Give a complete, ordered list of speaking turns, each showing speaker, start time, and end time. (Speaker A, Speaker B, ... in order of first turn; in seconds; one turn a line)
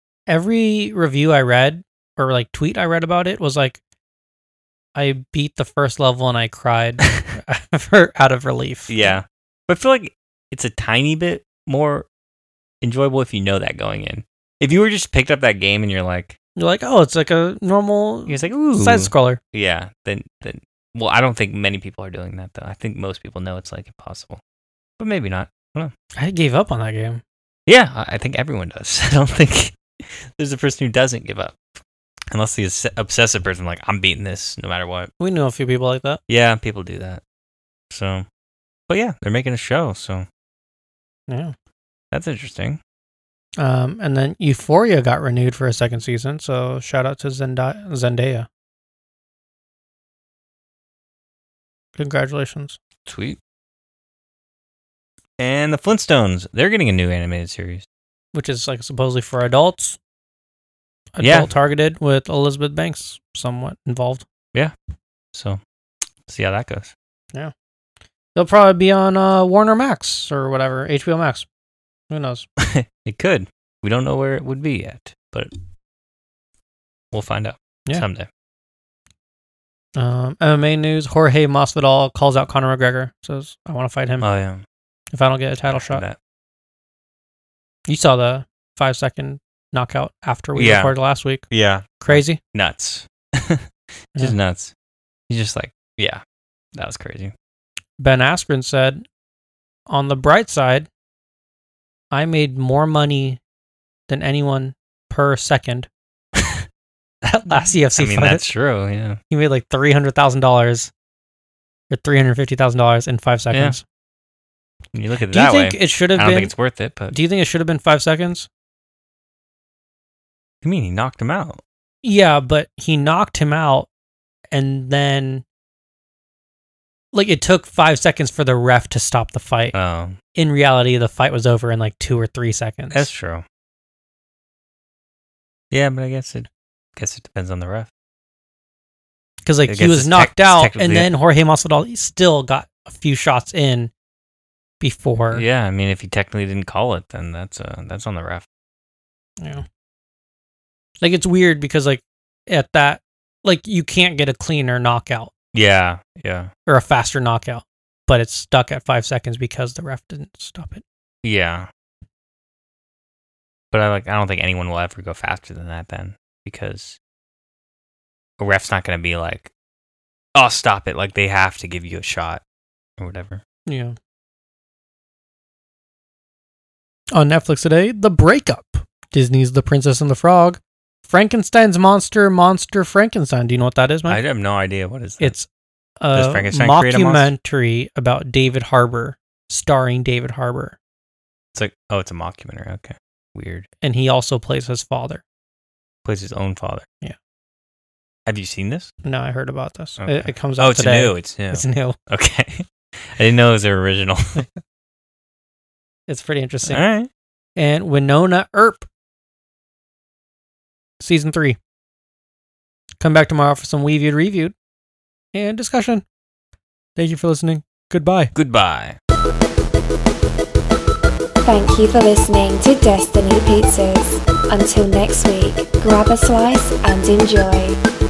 Speaker A: 0.3-3.8
Speaker A: 5.0-9.1
Speaker B: 8.9-12.1
Speaker B: 12.8-16.4
Speaker A: 16.6-19.4
Speaker B: 18.3-24.4
Speaker B: 25.0-25.9
Speaker A: 26.2-27.2
Speaker B: 27.7-31.6
Speaker B: 32.3-35.1
Speaker A: 35.2-36.2
Speaker B: 36.3-37.2
Speaker B: 37.9-38.2
Speaker B: 38.9-40.2
Speaker A: 41.3-41.5
Speaker B: 42.1-42.8
Speaker A: 43.6-48.5
Speaker A: 52.0-52.8
Speaker B: 53.0-53.4
Speaker B: 55.4-57.9
Speaker A: 58.3-60.0
Speaker A: 61.1-64.2
Speaker B: 61.2-61.5
Speaker B: 65.3-65.6
Speaker B: 66.3-66.9
Speaker A: 68.3-71.5
Speaker A: 72.1-72.5
Speaker B: 72.6-75.5
Speaker B: 77.1-78.3
Speaker A: 80.0-84.2
Speaker B: 84.2-84.6
Speaker A: 85.1-86.0
Speaker B: 85.7-86.2
Speaker A: 87.9-91.5
Speaker B: 90.5-90.9
Speaker B: 91.5-94.7
Speaker A: 92.0-92.4
Speaker B: 95.3-96.2
Speaker B: 96.7-97.3
Speaker A: 98.0-99.0
Speaker A: 99.9-100.9
Speaker A: 102.1-103.4
Speaker A: 104.1-105.9
Speaker B: 106.4-106.6
Speaker B: 107.2-109.2
Speaker A: 107.5-108.4
Speaker A: 109.3-110.9
Speaker A: 111.9-113.8
Speaker B: 114.9-117.2
Speaker A: 115.3-116.5
Speaker A: 117.1-118.5
Speaker B: 120.6-121.6
Speaker A: 122.0-123.9
Speaker A: 124.5-125.4
Speaker A: 127.1-129.7
Speaker B: 129.7-130.2
Speaker A: 130.3-133.1
Speaker B: 132.9-133.4
Speaker B: 135.7-137.9
Speaker A: 139.4-143.9
Speaker B: 139.7-141.1
Speaker A: 144.8-145.4
Speaker B: 145.3-148.4
Speaker A: 149.4-149.7
Speaker A: 151.0-155.3
Speaker B: 155.5-156.5
Speaker A: 156.7-160.8
Speaker B: 161.2-161.7
Speaker B: 163.7-167.0
Speaker B: 168.4-169.5
Speaker B: 170.3-172.4
Speaker B: 173.0-173.4
Speaker A: 173.7-173.9
Speaker A: 177.1-184.2
Speaker B: 184.1-185.3
Speaker A: 185.2-185.5
Speaker A: 186.0-190.8
Speaker B: 186.1-187.3
Speaker B: 191.5-193.7
Speaker A: 193.8-195.2
Speaker B: 196.0-196.8
Speaker B: 198.3-198.9
Speaker A: 199.0-201.9
Speaker B: 200.0-204.5
Speaker A: 206.1-206.8
Speaker B: 206.7-207.1
Speaker A: 207.6-208.9
Speaker A: 211.0-211.6
Speaker A: 213.0-214.5
Speaker A: 215.3-216.0
Speaker A: 216.9-218.3
Speaker B: 218.3-219.0
Speaker C: 221.4-227.8